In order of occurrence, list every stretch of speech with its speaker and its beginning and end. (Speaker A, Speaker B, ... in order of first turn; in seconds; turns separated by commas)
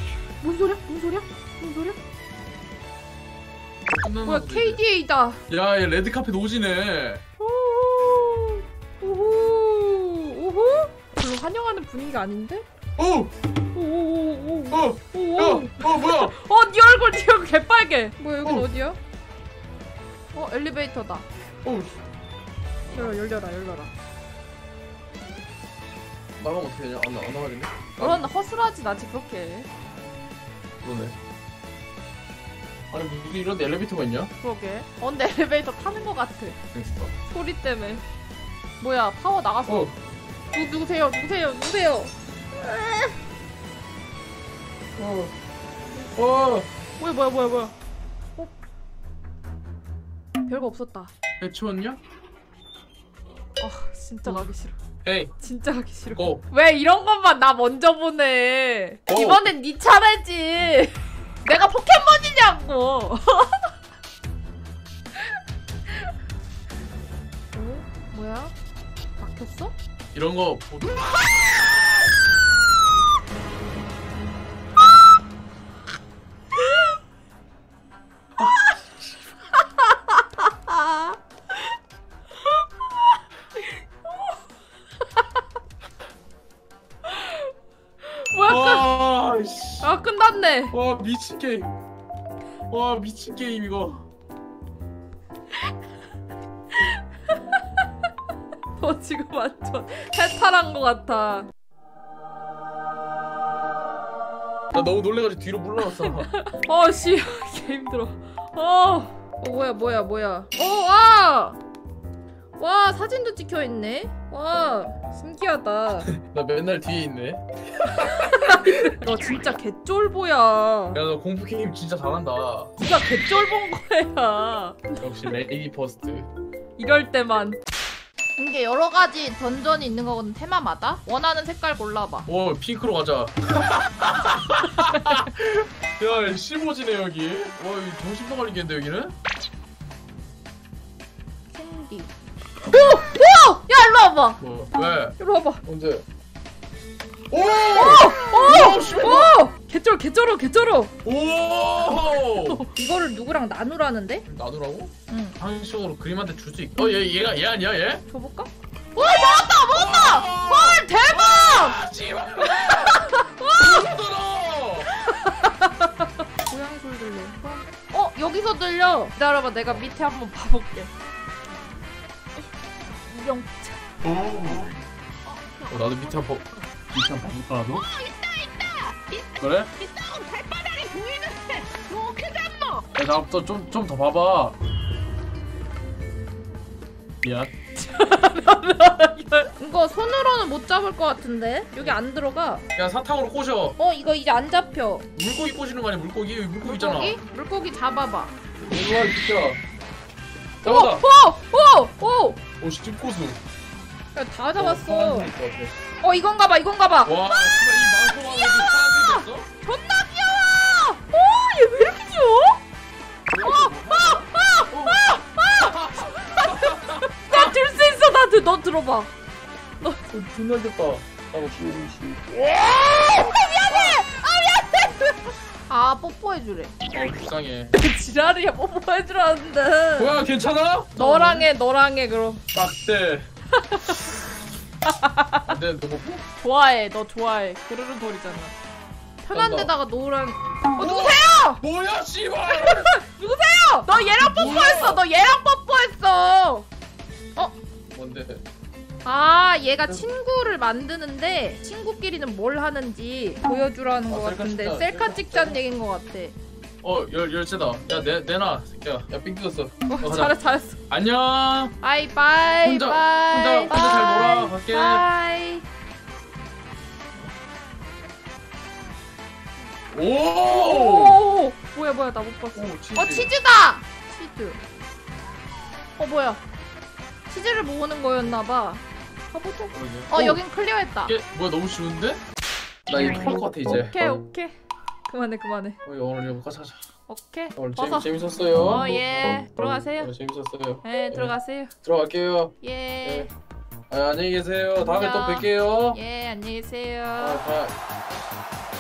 Speaker A: 0.4-2.0, Speaker B: 3.9-4.8, Speaker A: 4.2-5.4, Speaker B: 5.5-7.2, Speaker A: 7.4-12.7, Speaker B: 13.0-13.3, Speaker A: 13.7-19.0, Speaker B: 14.7-16.4, Speaker A: 20.3-21.2, Speaker B: 21.6-22.0, Speaker A: 22.9-23.9, Speaker B: 26.4-28.3, Speaker A: 28.0-29.7, Speaker B: 30.8-31.1, Speaker B: 32.9-34.3, Speaker A: 34.4-36.6, Speaker B: 36.7-37.1, Speaker A: 37.3-38.0, Speaker A: 38.8-39.9, Speaker B: 39.7-39.9, Speaker A: 40.5-43.1, Speaker B: 45.0-45.3, Speaker B: 46.1-46.7, Speaker A: 47.0-47.7, Speaker A: 50.5-51.1, Speaker B: 51.4-52.0, Speaker A: 53.6-54.8, Speaker B: 55.0-55.4, Speaker A: 55.4-63.7, Speaker B: 56.1-56.4, Speaker B: 59.1-59.5, Speaker A: 67.5-68.5, Speaker A: 69.2-69.7, Speaker B: 70.1-71.9, Speaker B: 78.4-78.7, Speaker A: 80.7-81.1, Speaker A: 87.1-87.4, Speaker A: 88.0-88.9, Speaker B: 88.5-89.9, Speaker A: 89.8-90.7, Speaker B: 90.7-91.7, Speaker B: 92.7-94.0, Speaker A: 98.8-101.5, Speaker B: 104.7-106.3, Speaker A: 105.9-111.6, Speaker A: 112.6-116.1, Speaker B: 116.0-119.0, Speaker A: 117.9-121.0, Speaker B: 120.9-122.7, Speaker A: 122.8-124.9, Speaker B: 125.0-126.3, Speaker A: 126.8-127.6, Speaker A: 128.4-132.3, Speaker B: 132.3-139.1, Speaker A: 141.5-142.1, Speaker A: 142.7-144.4, Speaker B: 144.4-146.1, Speaker A: 145.2-145.6, Speaker B: 147.3-149.4, Speaker A: 147.7-150.9, Speaker B: 151.1-152.7, Speaker A: 152.2-154.2, Speaker B: 154.3-158.0, Speaker A: 155.1-155.4, Speaker A: 158.1-161.8, Speaker B: 159.7-164.9, Speaker A: 162.4-164.0, Speaker A: 165.0-170.9, Speaker A: 173.0-173.9, Speaker B: 174.1-174.7, Speaker A: 175.2-176.7, Speaker B: 175.7-177.9, Speaker A: 178.0-179.2, Speaker B: 179.4-179.7, Speaker A: 179.8-182.6, Speaker B: 182.9-184.6, Speaker B: 187.2-187.6, Speaker A: 187.8-192.7, Speaker B: 192.8-193.8, Speaker A: 193.8-195.1, Speaker B: 195.2-197.2, Speaker A: 196.6-198.3, Speaker B: 198.6-199.6, Speaker B: 200.6-201.1, Speaker A: 200.7-202.4, Speaker B: 202.6-203.4, Speaker A: 204.2-205.3, Speaker B: 204.6-205.8, Speaker A: 206.0-207.3, Speaker B: 207.1-209.5, Speaker A: 208.2-212.6, Speaker B: 213.3-217.5, Speaker A: 213.4-219.1, Speaker B: 220.1-222.9, Speaker A: 222.9-225.1, Speaker B: 223.7-224.0, Speaker A: 225.7-226.8, Speaker B: 226.9-227.7, Speaker A: 227.8-230.2, Speaker B: 230.0-231.5, Speaker A: 231.0-232.4, Speaker B: 232.5-233.3, Speaker A: 233.6-234.1, Speaker A: 234.9-235.5, Speaker B: 235.5-236.2, Speaker A: 236.4-238.6, Speaker A: 239.2-241.6, Speaker B: 239.3-239.7, Speaker B: 240.8-242.9, Speaker A: 242.5-246.7, Speaker B: 244.0-245.0, Speaker B: 247.9-248.4, Speaker A: 249.0-256.4, Speaker B: 254.1-255.6, Speaker B: 256.8-260.4, Speaker A: 259.9-260.8, Speaker B: 260.9-261.7, Speaker A: 261.8-265.7, Speaker B: 262.6-265.1, Speaker B: 269.9-271.2, Speaker A: 270.4-274.6, Speaker B: 272.6-273.3, Speaker A: 276.0-276.4, Speaker A: 277.3-281.1, Speaker B: 279.7-280.4, Speaker B: 281.1-282.2, Speaker B: 282.9-283.9, Speaker A: 283.7-284.6, Speaker A: 285.1-285.8, Speaker B: 285.8-286.8, Speaker A: 287.1-288.1, Speaker B: 287.6-289.0, Speaker A: 288.6-290.1, Speaker B: 290.0-293.3, Speaker A: 290.8-291.7, Speaker A: 292.6-293.3, Speaker B: 293.9-296.0, Speaker A: 294.8-297.4, Speaker B: 297.2-297.8